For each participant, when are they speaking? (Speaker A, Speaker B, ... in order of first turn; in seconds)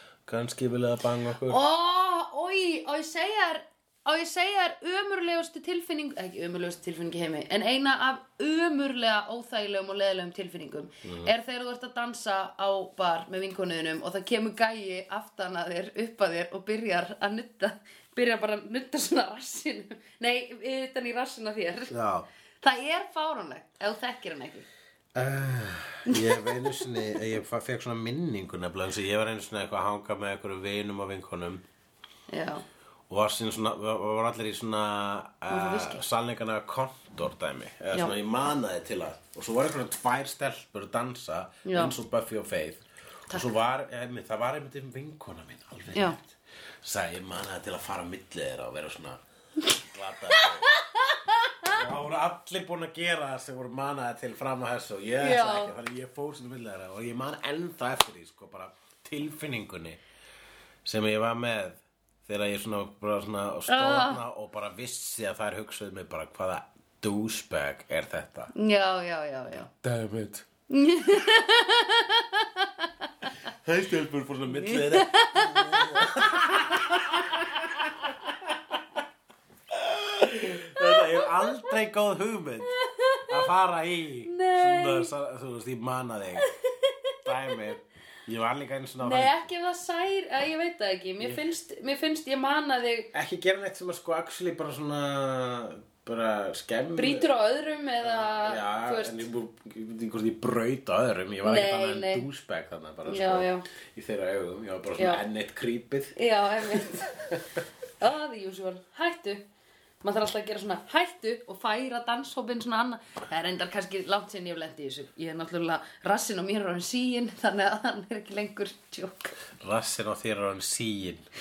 Speaker A: 0.2-1.6, 11.0-11.3, 21.9-22.3, 25.1-31.6, 33.1-50.7, 51.7-60.0, 60.8-68.5, 69.7-70.5, 73.6-78.8, 79.7-82.7, 83.3-86.5, 87.2-89.3, 93.1-97.3, 98.0-107.4, 119.6-121.2
Speaker B: 1.5-21.9, 22.6-24.7, 26.1-26.7, 32.3-32.6, 35.5-36.0, 41.6-41.9, 45.9-46.2, 50.3-51.8, 55.2-55.7, 63.7-64.2, 68.5-69.7, 70.7-73.3, 74.5-76.5, 80.8-81.7, 82.7-83.3, 84.2-85.1, 86.4-87.6, 89.0-93.1, 97.0-99.2, 101.4-102.2, 103.1-103.6, 105.0-105.2, 106.1-107.3, 108.0-109.4, 110.0-119.3